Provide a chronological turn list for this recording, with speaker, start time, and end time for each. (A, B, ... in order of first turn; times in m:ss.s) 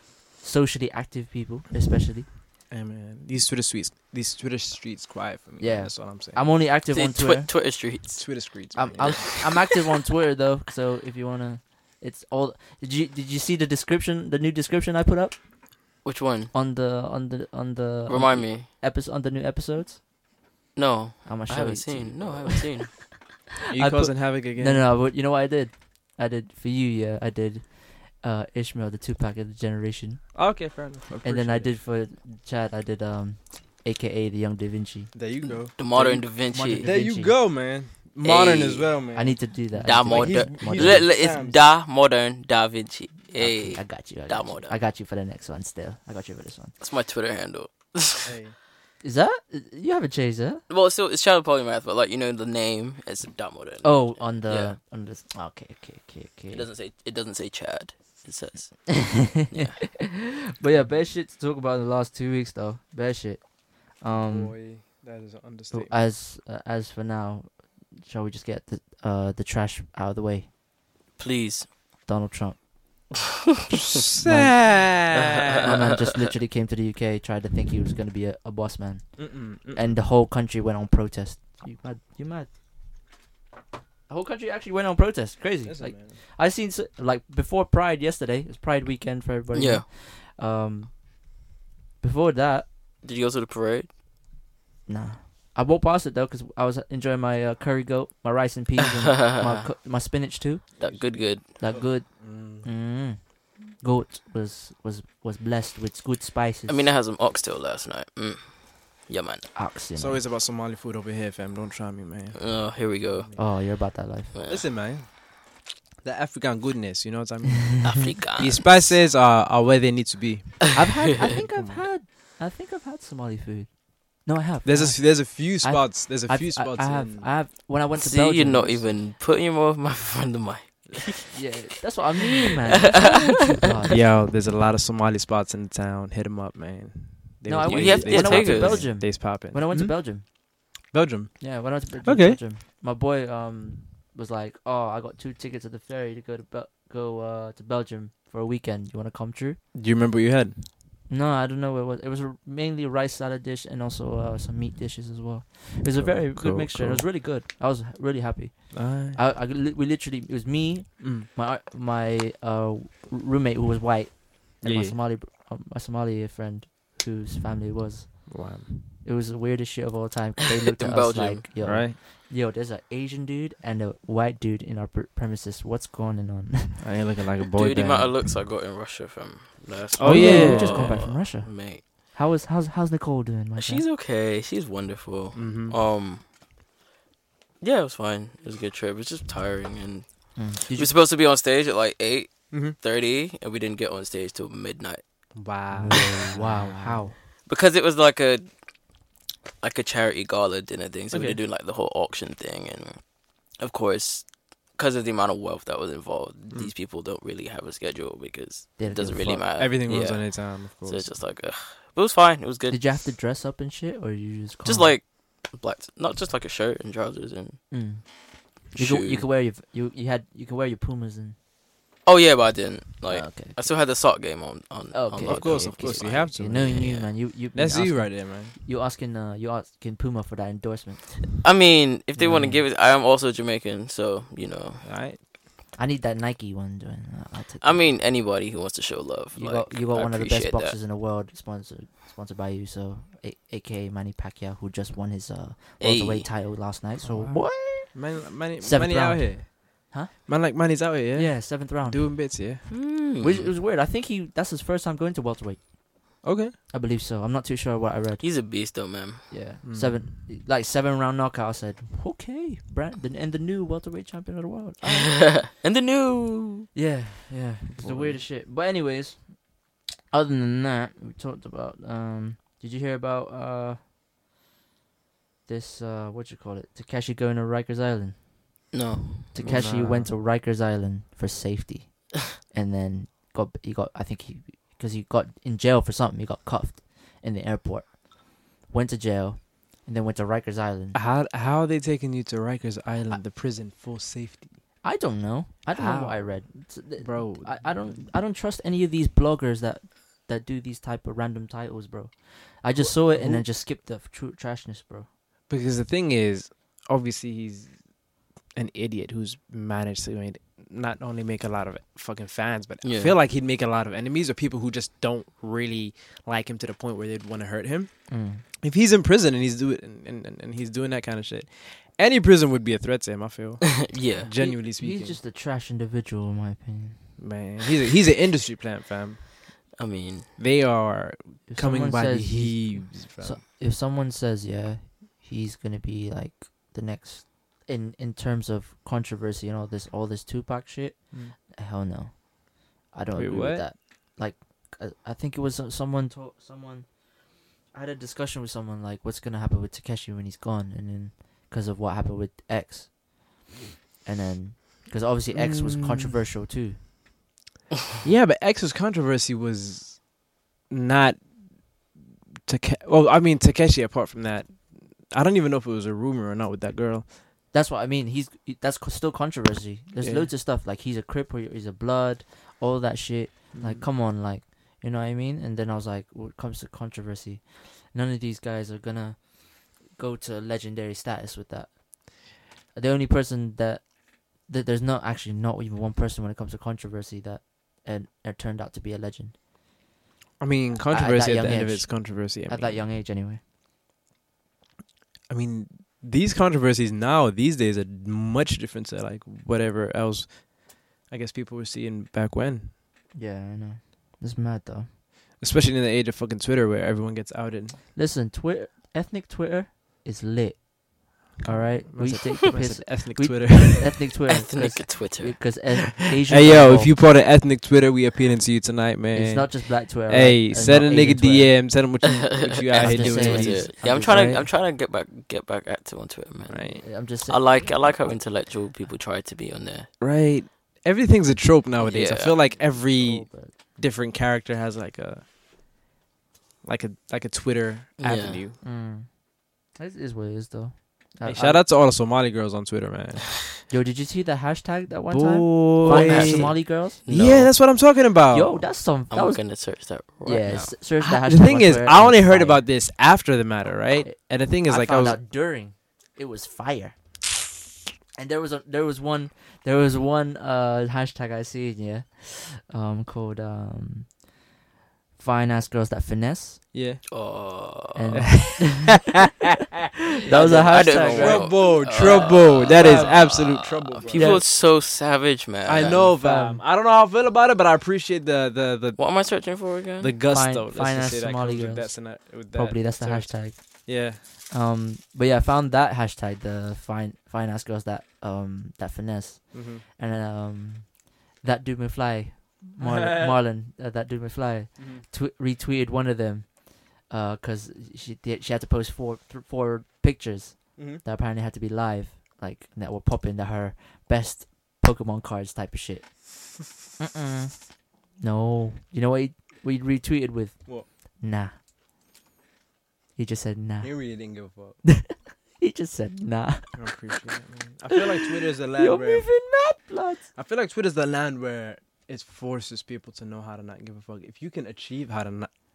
0:00.4-0:02.3 A
0:02.7-0:06.4 B
0:05.6-0:07.5 A
0:06.9-0:09.8 C
0:08.2-0:09.4 B
0:08.7-0:15.4 A
0:16.0-0:16.5 C
0:16.5-0:20.0 A
0:18.1-0:18.7 C
0:20.8-0:23.0 C
0:21.2-0:22.7 A
0:23.7-0:24.9 B
0:23.7-0:30.3 A
0:30.3-0:31.7 B
0:31.2-0:35.1 A
0:35.1-0:41.6 B
0:35.7-0:36.9 C
0:36.5-0:37.3 A
0:38.2-0:38.9 C
0:39.1-0:41.1 A
0:39.8-0:44.8 C
0:43.3-0:46.7 A
0:46.8-0:48.3 C
0:48.2-0:48.6 B
0:49.0-0:50.6 A
0:50.7-0:54.7 C
0:53.8-0:56.7 A
0:56.5-0:59.8 C
0:58.9-1:04.6 A
1:04.1-1:05.9 B
1:05.7-1:10.5 A
1:11.2-1:11.7 C
1:12.0-1:12.6 A
1:13.7-1:15.7 B
1:14.2-1:14.6 A
1:15.3-1:15.8 C
1:15.6-1:22.5 A
1:19.2-1:20.0 B
1:24.1-1:30.9 A
1:25.6-1:26.2 B
1:29.5-1:29.8 C
1:32.0-1:32.7 A
1:33.0-1:33.9 C
1:34.9-1:40.8 A
1:39.1-1:39.7 C
1:40.8-1:41.4 C
1:40.8-1:42.7 B
1:41.5-1:46.8 A
1:46.7-1:49.5 C
1:49.5-1:50.2 A
1:50.0-1:52.5 B
1:52.3-1:53.3 C
1:53.0-1:53.4 B
1:53.4-1:54.3 A
1:54.3-1:54.6 C
1:54.5-1:55.1 B
1:56.0-2:01.8 B
1:57.8-1:59.0 C
2:00.7-2:08.9 A
2:04.6-2:07.3 B
2:08.0-2:11.2 C
2:11.3-2:14.0 A
2:12.8-2:13.2 C
2:13.9-2:20.0 B
2:17.5-2:20.2 A
2:17.6-2:19.0 C
2:20.9-2:22.4 B
2:21.4-2:29.6 A
2:29.7-2:30.6 B
2:31.1-2:48.4 A
2:35.9-2:37.1 B
2:38.7-2:39.2 B
2:41.0-2:41.3 B
2:44.6-2:45.0 B
2:48.3-2:48.8 B
2:49.0-2:56.8 A
2:50.6-2:51.4 C
2:51.6-2:52.0 B
2:56.8-2:58.2 B
2:57.5-3:01.8 C
3:00.0-3:01.0 B
3:00.0-3:03.8 A
3:03.6-3:06.2 C
3:05.3-3:05.8 B
3:07.6-3:15.0 C
3:10.4-3:10.9 A
3:12.5-3:12.8 B
3:15.3-3:17.0 B
3:15.8-3:17.2 A
3:17.4-3:18.5 C
3:19.6-3:33.0 C
3:21.1-3:21.4 B
3:28.8-3:29.4 A
3:29.6-3:31.1 B
3:32.7-3:35.0 A
3:34.6-3:37.6 C
3:37.7-3:41.4 A
3:38.7-3:39.2 C
3:42.0-3:47.1 C
3:43.1-3:43.6 A
3:44.9-3:51.3 A
3:45.2-3:46.8 B
3:47.5-3:48.5 B
3:51.4-3:54.8 C
3:52.2-3:52.6 A
3:54.8-3:55.2 B
3:55.8-3:58.0 A
3:57.6-4:00.8 C
3:59.3-4:10.1 A
4:05.8-4:06.3 C
4:07.0-4:09.5 B
4:10.2-4:12.6 B
4:11.1-4:18.7 A
4:12.7-4:13.5 C
4:16.2-4:16.5 B
4:18.2-4:19.3 C
4:19.3-4:25.3 A
4:19.6-4:20.1 B
4:25.1-4:26.7 C
4:26.7-4:29.5 A
4:27.7-4:28.2 B
4:30.1-4:33.8 A
4:35.5-4:38.7 A
4:38.7-4:39.3 C
4:39.3-4:51.0 A
4:39.4-4:40.1 B
4:50.9-4:54.6 B
4:54.8-5:05.1 A
4:55.7-4:58.0 B
5:02.8-5:03.5 B
5:05.5-5:07.7 B
5:08.5-5:25.2 B
5:12.8-5:13.1 C
5:18.1-5:18.4 A
5:23.8-5:24.3 C
5:24.4-5:27.1 A
5:27.2-5:29.2 B
5:29.8-5:30.3 C
5:30.4-5:33.4 B
5:31.5-5:42.3 A
5:42.8-5:47.0 A
5:43.1-5:43.7 B
5:47.7-5:53.0 A
5:54.0-5:56.8 A
5:55.3-5:56.2 B
5:58.0-6:00.1 B
6:00.7-6:01.9 B
6:02.4-6:07.1 B
6:07.5-6:29.4 A
6:10.0-6:10.3 B
6:13.5-6:13.8 B
6:30.4-6:32.8 B
6:30.9-6:33.4 A
6:35.3-6:42.7 B
6:43.1-6:44.9 A
6:45.4-6:47.8 B
6:47.9-6:56.9 A
6:51.4-6:54.0 B
6:54.3-6:55.4 C
6:56.3-7:04.5 B
6:59.1-7:01.6 A
7:02.0-7:09.9 C
7:02.8-7:04.4 A
7:06.5-7:06.8 B
7:06.8-7:08.2 A
7:10.0-7:15.2 B
7:11.8-7:12.4 C
7:12.6-7:13.5 A
7:16.6-7:18.6 B
7:18.0-7:18.4 C
7:18.6-7:19.2 A
7:19.7-7:21.6 A
7:21.2-7:23.3 B
7:23.7-7:27.0 A
7:25.1-7:28.6 B
7:25.8-7:27.6 C
7:28.3-7:29.6 A
7:29.1-7:30.7 C
7:30.2-7:32.7 A
7:31.0-7:35.2 B
7:34.0-7:37.3 A
7:38.2-7:44.2 A
7:45.2-7:46.6 A
7:46.7-7:47.0 B
7:47.1-7:48.3 C
7:47.9-7:48.9 A
7:48.1-7:49.0 B
7:50.2-7:52.0 A
7:50.3-7:54.4 B
7:50.3-7:56.1 C
7:52.8-7:53.1 A
7:54.1-7:54.4 A
7:55.6-7:59.0 B
7:55.8-7:56.6 A
7:59.0-8:00.2 C
8:00.0-8:04.2 B
8:00.3-8:26.1 A
8:09.5-8:09.8 B
8:12.8-8:13.4 B
8:14.8-8:15.0 B
8:20.8-8:21.0 B
8:27.0-8:31.5 A
8:33.2-8:34.3 A
8:33.8-8:34.8 B
8:34.8-8:36.8 A
8:36.8-8:39.3 B
8:38.7-8:40.2 A
8:40.3-8:45.5 B